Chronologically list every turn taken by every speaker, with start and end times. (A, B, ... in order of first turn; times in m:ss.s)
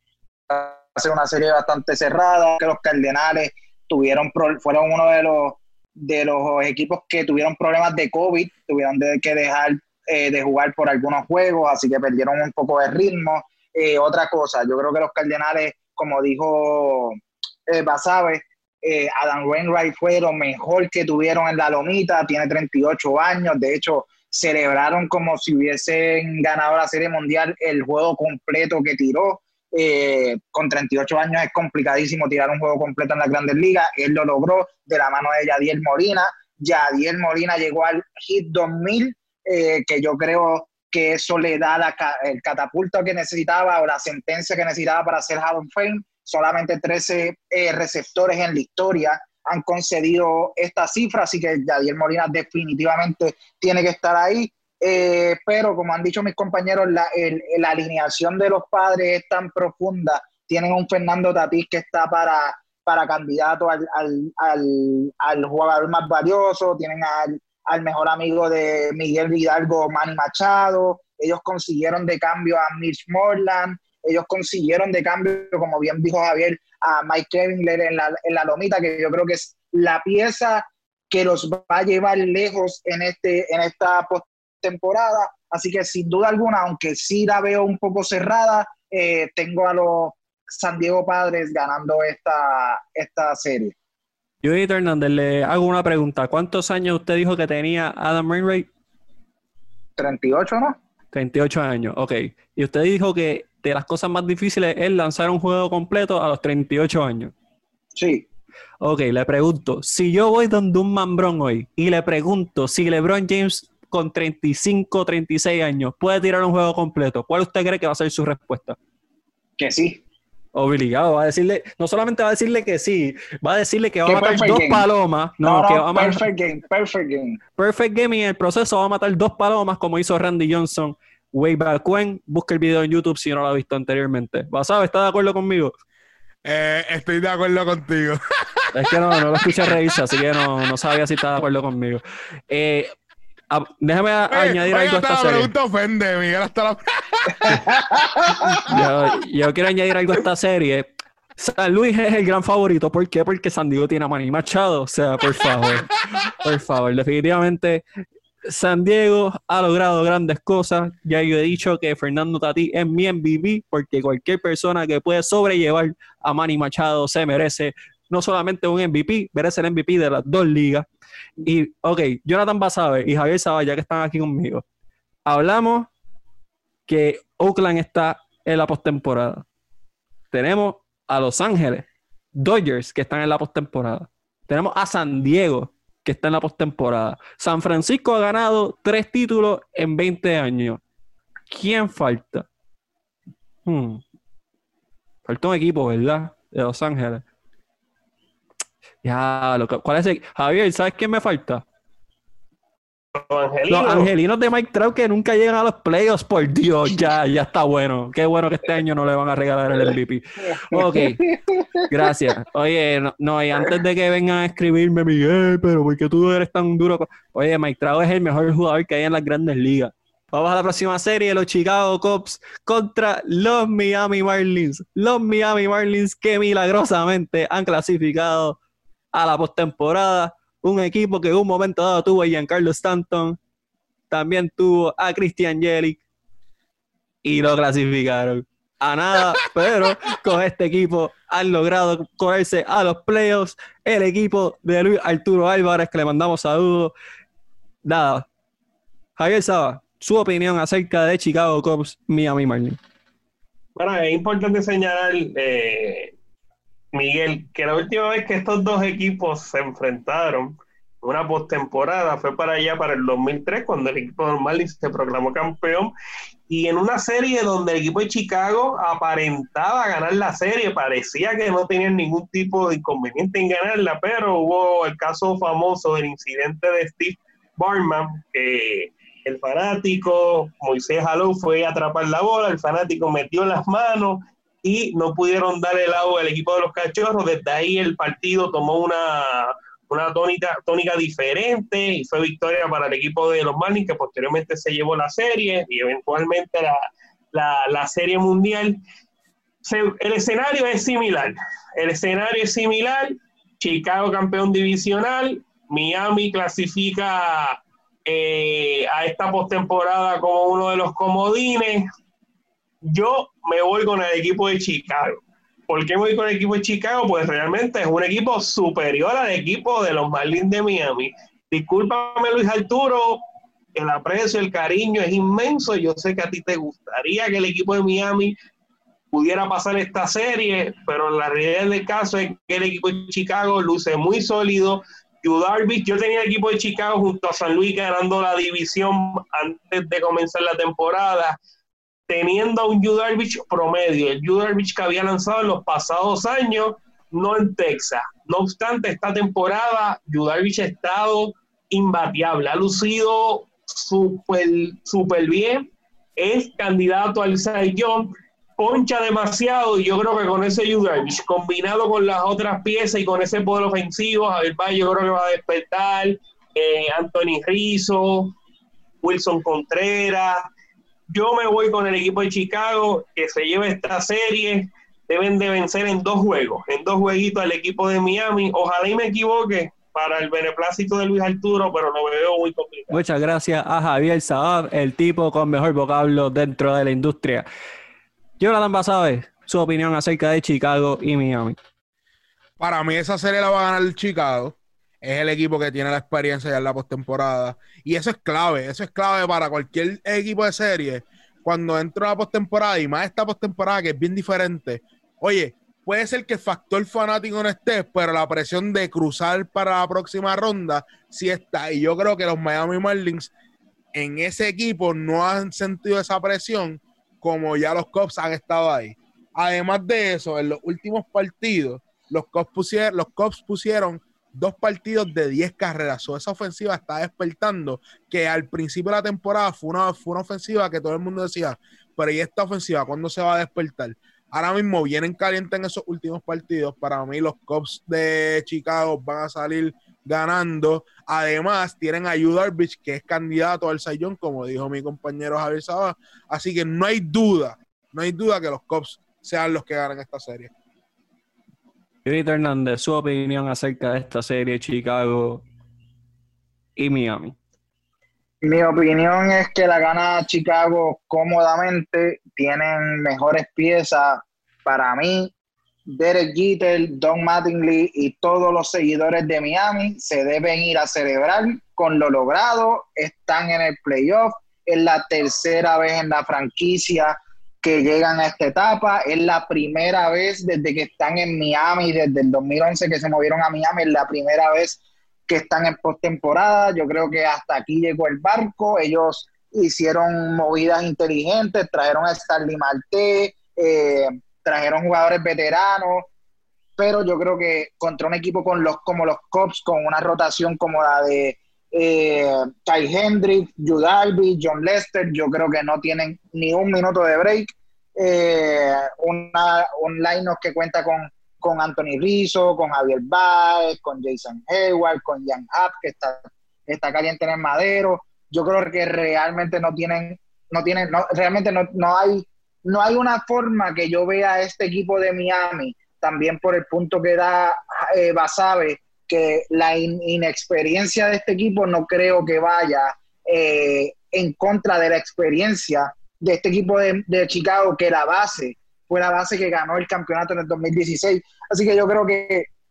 0:00.5-1:33.7 A
1:34.4-1:38.7 B
1:40.0-1:40.8 A
1:41.1-1:47.3 B
1:48.0-1:48.2 A
1:48.8-1:58.8 B
1:59.6-2:00.0 A
2:00.5-2:06.2 B
2:04.0-2:04.9 A
2:05.4-2:07.4 A
2:07.6-2:15.7 B
2:16.4-2:19.7 C
2:18.7-2:22.9 B
2:23.5-2:25.5 B
2:24.3-2:28.7 C
2:28.6-2:37.8 B
2:38.4-2:50.8 B
2:51.4-2:54.6 B
2:55.2-2:55.9 B
2:56.9-2:59.4 B
3:00.3-3:01.9 B
3:02.4-3:10.8 B
3:11.5-3:12.5 B
3:13.6-3:14.0 B
3:15.2-3:17.2 B
3:19.0-3:21.6 B
3:23.1-3:24.1 D
3:23.7-3:31.2 B
3:30.6-3:31.7 A
3:31.9-3:48.6 B
3:49.1-3:53.4 B
3:54.1-3:56.0 B
3:57.2-4:06.9 B
4:07.8-4:08.2 B
4:09.2-4:12.8 B
4:13.8-4:16.1 D
4:16.9-4:25.9 D
4:26.5-4:58.8 D
4:59.6-5:11.8 D
5:12.8-5:23.2 D
5:23.7-5:28.3 D
5:29.1-5:41.4 D
5:42.1-6:08.3 D
6:09.0-6:10.4 D
6:11.1-6:23.0 D
6:22.9-6:27.4 B
6:28.4-6:31.6 B
6:32.6-6:53.3 C
6:53.9-7:30.5 C
7:32.0-7:35.4 B
7:36.8-7:37.4 B
7:38.4-7:45.3 A
7:45.9-8:16.1 A
8:16.8-9:02.5 A